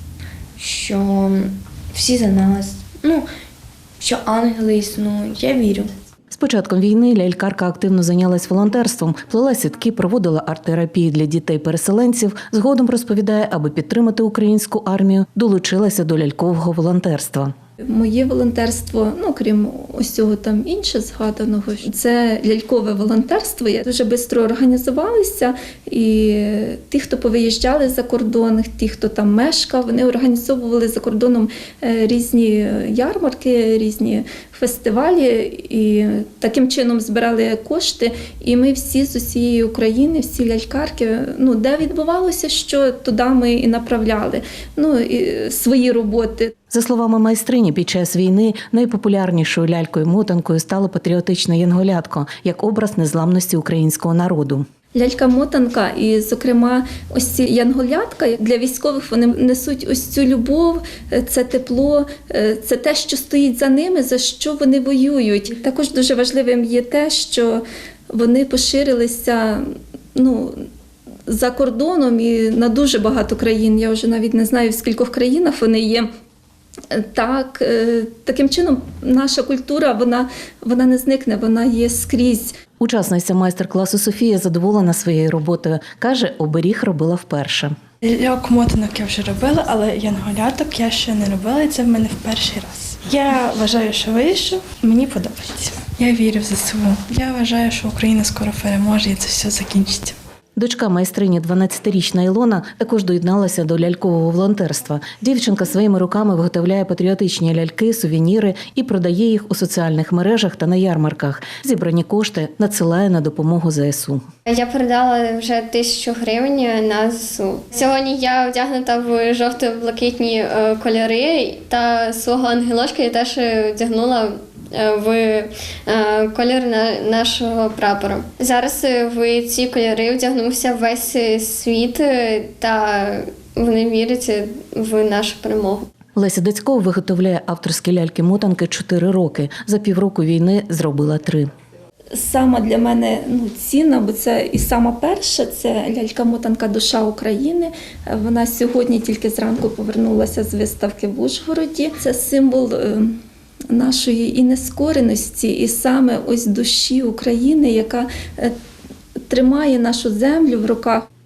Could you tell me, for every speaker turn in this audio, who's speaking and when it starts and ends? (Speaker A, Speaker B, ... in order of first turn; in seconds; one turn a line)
Speaker A: 0.6-3.3
Speaker A: 4.0-5.9
Speaker B: 6.3-17.5
Speaker C: 17.8-46.5
Speaker B: 46.7-54.7
Speaker C: 54.9-70.7
Speaker C: 71.3-76.1
Speaker C: 76.9-82.5
Speaker B: 82.8-87.8
Speaker D: 88.0-100.2
Speaker B: 100.6-114.2
Speaker E: 114.5-135.9
Speaker B: 136.2-141.5
Speaker C: 142.1-153.2
Speaker C: 153.7-158.6
Speaker C: 159.3-161.0